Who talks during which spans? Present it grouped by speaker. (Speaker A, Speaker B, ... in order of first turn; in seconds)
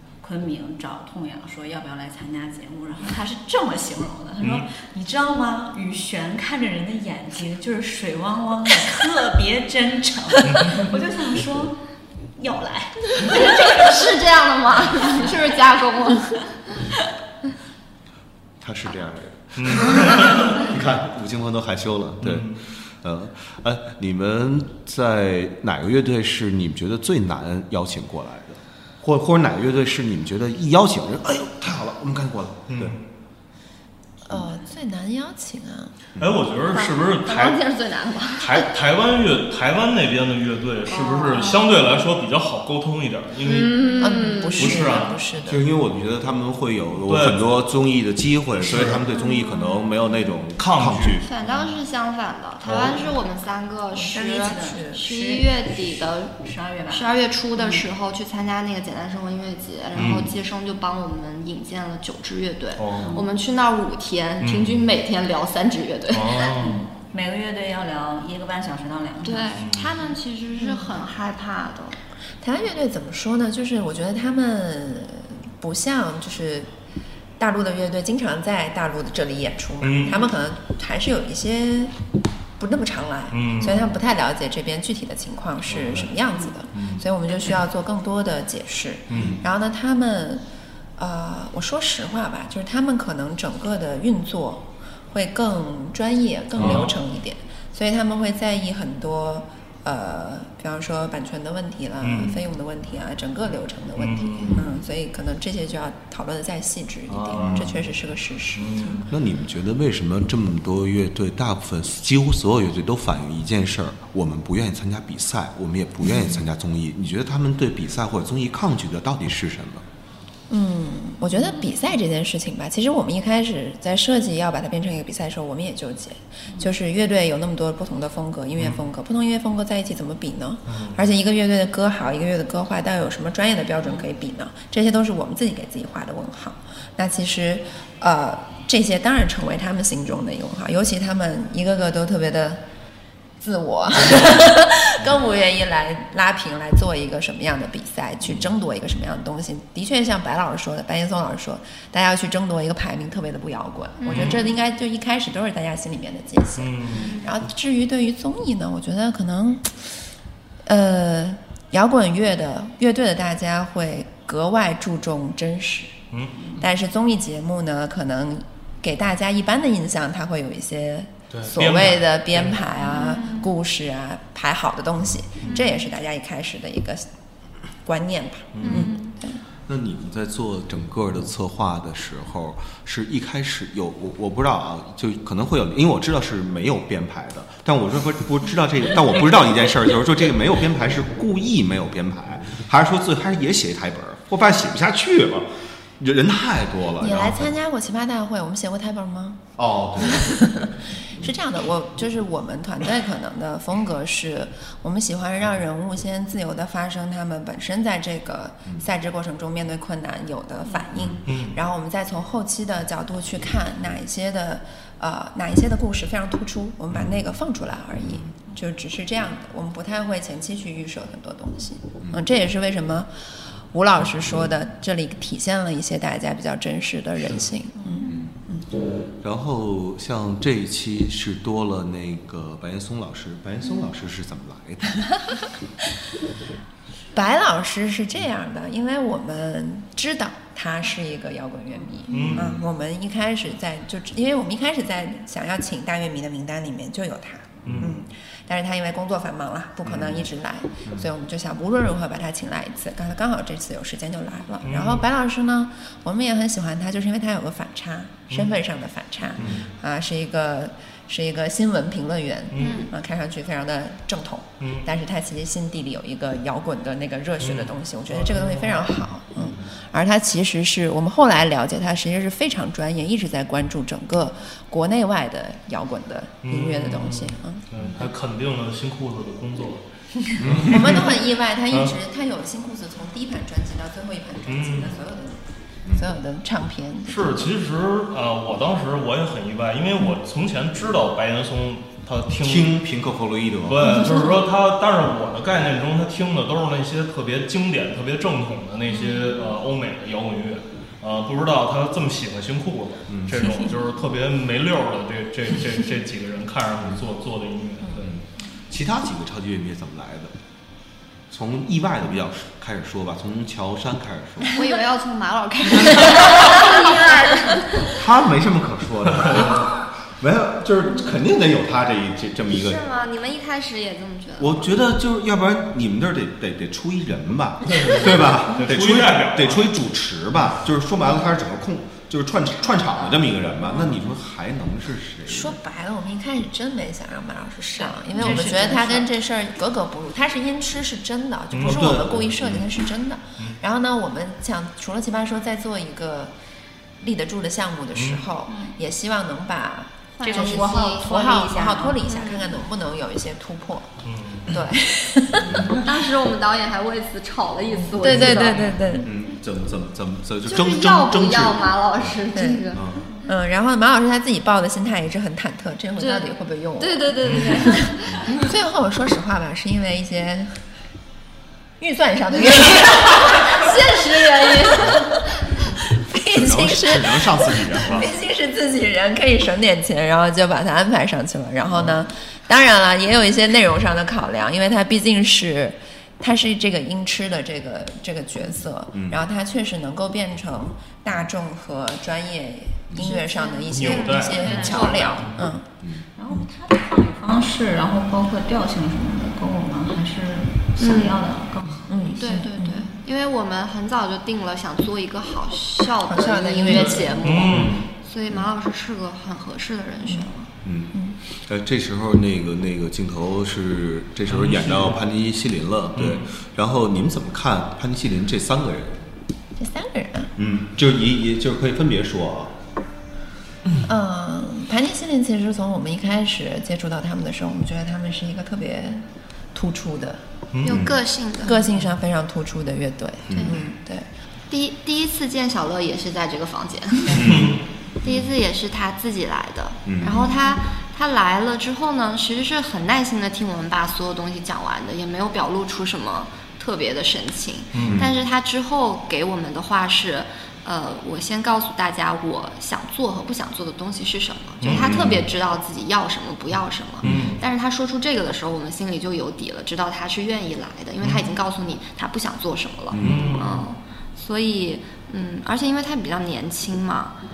Speaker A: 0.2-11.8, 12.4-14.1, 14.9-15.3, 54.1-57.8, 63.0-63.3, 66.6-69.6, 227.9-228.1, 337.8-339.1, 350.2-352.0, 393.2-393.6, 394.4-394.9, 396.2-402.4
Speaker B: 4.4-4.7, 10.4-10.9, 19.6-20.6, 22.2-22.6, 32.7-33.0, 36.2-37.6, 38.4-43.8, 44.5-45.2, 47.1-47.6, 48.6-49.0, 50.6-51.2, 60.0-60.3, 62.8-63.1, 64.4-64.8, 66.1-66.8, 69.5-69.9, 79.8-80.2, 83.3-83.9, 85.7-86.1, 86.7-87.0, 89.1-89.4, 96.6-96.9, 102.0-102.4, 104.0-104.7, 107.1-107.8, 108.6-109.1, 130.7-131.0, 154.1-154.4, 156.6-157.1, 166.1-166.4, 171.3-172.6, 178.6-178.9, 211.2-211.6, 242.1-242.6, 247.7-247.9, 254.6-255.1, 258.3-258.6, 262.5-262.8, 264.6-264.9, 267.4-268.9, 276.4-281.1, 284.5-285.0, 287.1-292.8, 293.7-308.1, 319.3-319.6, 327.7-329.7, 338.1-338.5, 341.5-342.0, 347.9-348.3, 354.1-354.5, 358.5-358.8, 367.2-367.6, 393.7-395.4, 407.2-407.9, 414.3-415.0, 415.9-416.3, 430.5-430.8, 437.1-437.6, 447.7-448.0, 454.6-455.1, 457.0-457.4, 463.0-463.7
Speaker C: 13.2-16.5, 36.7-38.7, 40.9-41.7, 43.4-44.9, 49.2-49.8, 51.2-56.4, 56.9-66.5, 69.2-72.0, 154.0-154.5, 156.9-157.3, 172.9-173.5, 175.4-175.8, 178.6-179.1, 262.6-262.9, 314.5-317.9, 322.5-324.7, 350.2-352.5, 355.7-358.7, 360.5-362.8, 366.0-368.5, 372.6-375.1, 393.1-395.3, 400.8-401.2, 402.2-410.5, 430.6-431.6, 433.3-433.6, 434.5-437.2, 438.0-467.2
Speaker D: 18.6-33.0, 45.4-51.3, 89.1-89.4, 96.6-96.9, 104.5-104.7, 107.3-107.7, 109.1-119.8, 179.7-197.5, 199.6-201.3, 211.0-211.2, 218.0-218.3, 228.1-228.3, 229.2-235.1, 242.2-242.6, 247.7-247.9, 249.9-250.3, 259.4-259.7, 280.4-280.9, 292.4-293.8, 303.1-303.5, 307.9-310.3, 311.3-314.5, 315.8-316.3, 317.9-322.8, 324.4-335.6, 341.6-342.6, 355.4-355.8, 359.0-362.1, 362.7-363.1, 376.3-378.1, 388.9-389.2, 410.6-419.0, 420.4-422.6, 430.6-431.0, 433.3-433.6, 437.1-438.2, 439.9-440.3, 447.8-448.1, 454.7-455.3, 457.0-457.3, 462.9-463.4
Speaker E: 34.2-35.9, 44.0-45.7, 54.0-55.1, 72.4-76.7, 77.4-82.0, 82.6-90.4, 91.0-109.0, 120.5-142.6, 143.4-159.9, 160.7-165.9, 166.6-177.1, 177.8-179.4, 197.0-199.4, 200.0-223.1, 223.7-228.7, 237.1-277.6, 280.6-287.5, 335.3-346.3, 347.0-353.9, 354.5-355.8, 357.9-359.1, 362.4-362.6, 363.2-370.6, 371.8-373.7, 374.7-374.9, 376.0-395.7, 401.9-402.9, 406.1-407.5, 419.6-420.3, 423.8-430.2, 431.4-434.1